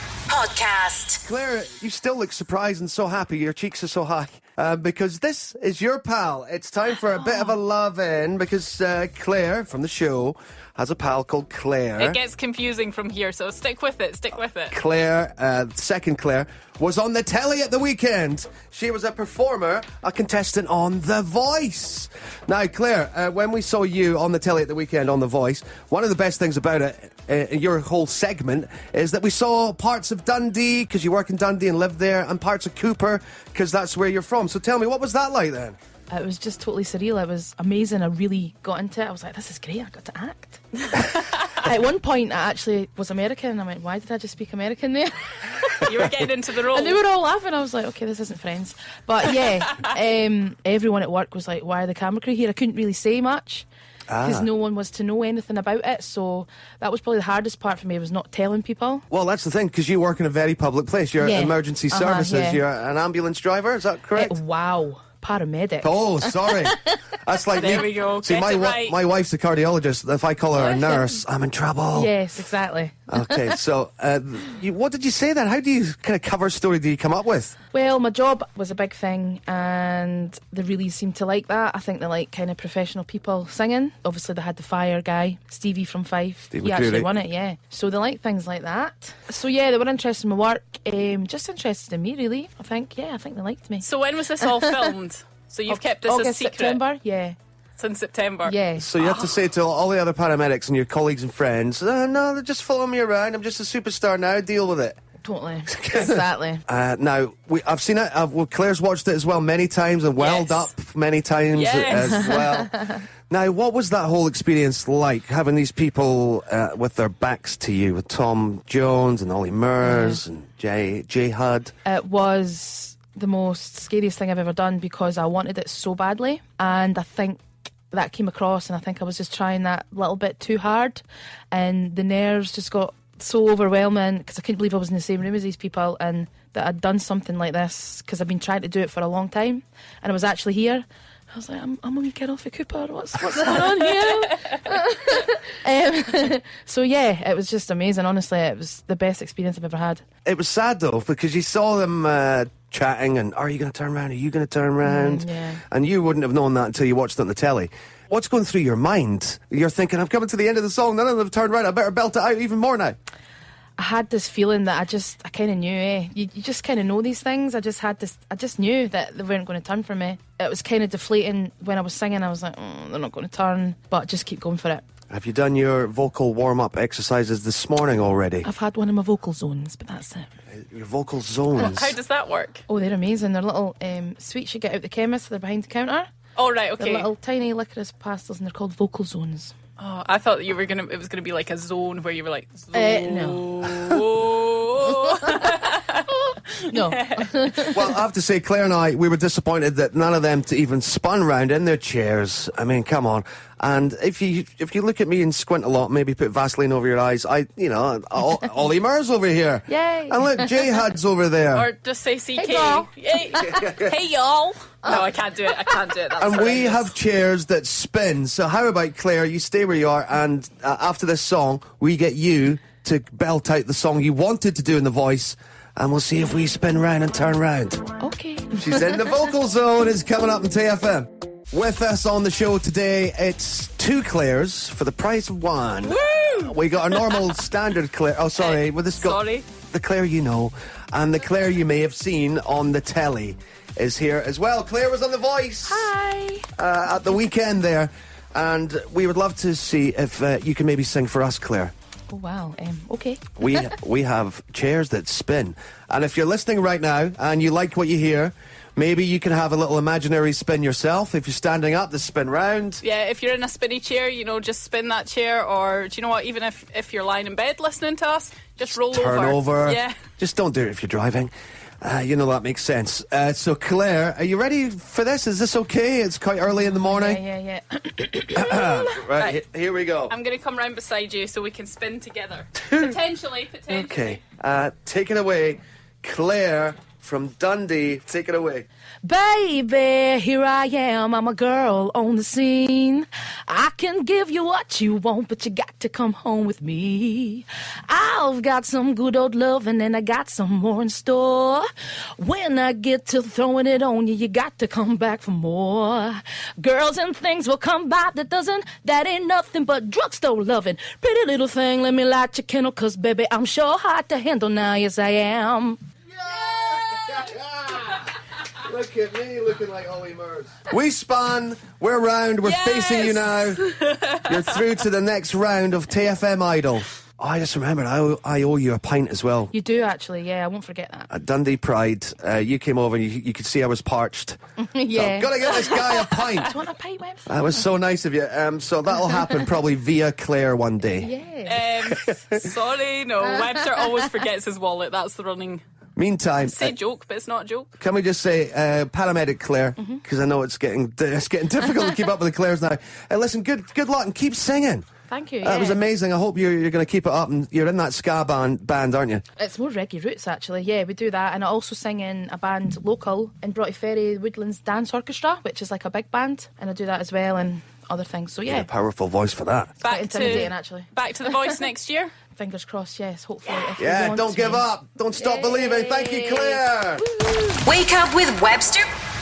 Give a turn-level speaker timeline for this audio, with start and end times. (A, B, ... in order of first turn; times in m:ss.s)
0:00.3-0:01.2 A
0:01.2-0:12.2 B
0:12.0-0:14.8 C
0:14.7-0:35.8 B
0:36.1-0:46.1 D
0:45.8-0:47.0 C
0:46.7-0:53.7 D
0:54.1-0:54.5 B
0:54.2-0:59.0 D
0:59.1-1:04.4 B
1:01.2-1:02.6 D
1:04.2-1:07.0 D
1:05.8-1:12.1 B
1:07.6-1:09.0 C
1:10.6-1:11.2 D
1:11.9-1:13.5 D
1:13.1-1:17.6 B
1:17.7-1:33.9 D
1:26.5-1:27.1 B
1:33.8-1:36.8 C
1:34.4-1:34.9 D
1:35.7-1:37.4 D
1:37.8-1:38.6 C
1:38.4-1:39.2 D
1:38.8-1:45.0 B
1:45.2-1:46.6 D
1:45.7-2:01.7 B
1:50.2-1:50.7 C
1:51.5-1:52.4 C
1:59.8-2:00.2 D
2:01.8-2:30.0 D
2:30.2-2:43.0 B
2:34.8-2:35.6 D
2:43.8-2:54.9 D
2:55.1-2:58.5 B
2:58.4-3:00.3 D
3:00.5-3:02.0 B
3:01.6-3:02.6 C
3:02.7-3:06.1 D
3:06.4-3:07.1 C
3:06.8-3:09.6 D
3:09.8-3:17.5 C
3:12.7-3:13.5 D
3:15.3-3:17.9 D
3:17.7-3:31.7 B
3:29.7-3:30.6 D
3:31.5-3:36.9 C
3:32.4-3:32.9 D
3:33.4-3:34.0 B
3:36.2-3:47.9 B
3:48.0-3:49.0 D
3:48.6-4:05.9 B
3:55.8-3:57.3 C
3:58.4-3:59.5 C
4:05.7-4:06.5 D
4:06.6-4:11.7 B
4:12.1-4:13.5 D
4:13.4-4:22.8 B
4:22.8-4:30.0 C
4:28.9-4:37.2 B
4:36.6-4:39.0 D
4:38.3-4:40.1 B
4:40.1-4:44.2 C
4:43.7-4:48.7 B
4:49.0-5:15.8 D
5:16.1-5:18.1 B
5:18.6-5:23.6 B
5:22.4-5:24.4 C
5:24.2-5:29.5 B
5:29.5-5:31.1 D
5:31.1-5:34.4 B
5:34.6-5:35.8 D
5:34.9-5:36.5 B
5:36.4-5:37.4 D
5:37.3-5:41.1 B
5:41.0-5:41.6 D
5:41.4-5:45.6 C
5:41.9-5:42.4 B
5:46.0-5:46.7 B
5:46.4-5:47.7 C
5:47.8-5:54.9 B
5:55.1-5:55.8 D
5:55.4-5:59.2 B
5:59.4-6:08.7 D
6:08.5-6:09.8 B
6:09.8-6:12.1 C
6:09.8-6:11.5 D
6:12.4-6:17.7 D
6:13.8-6:17.0 B
6:17.6-6:18.9 A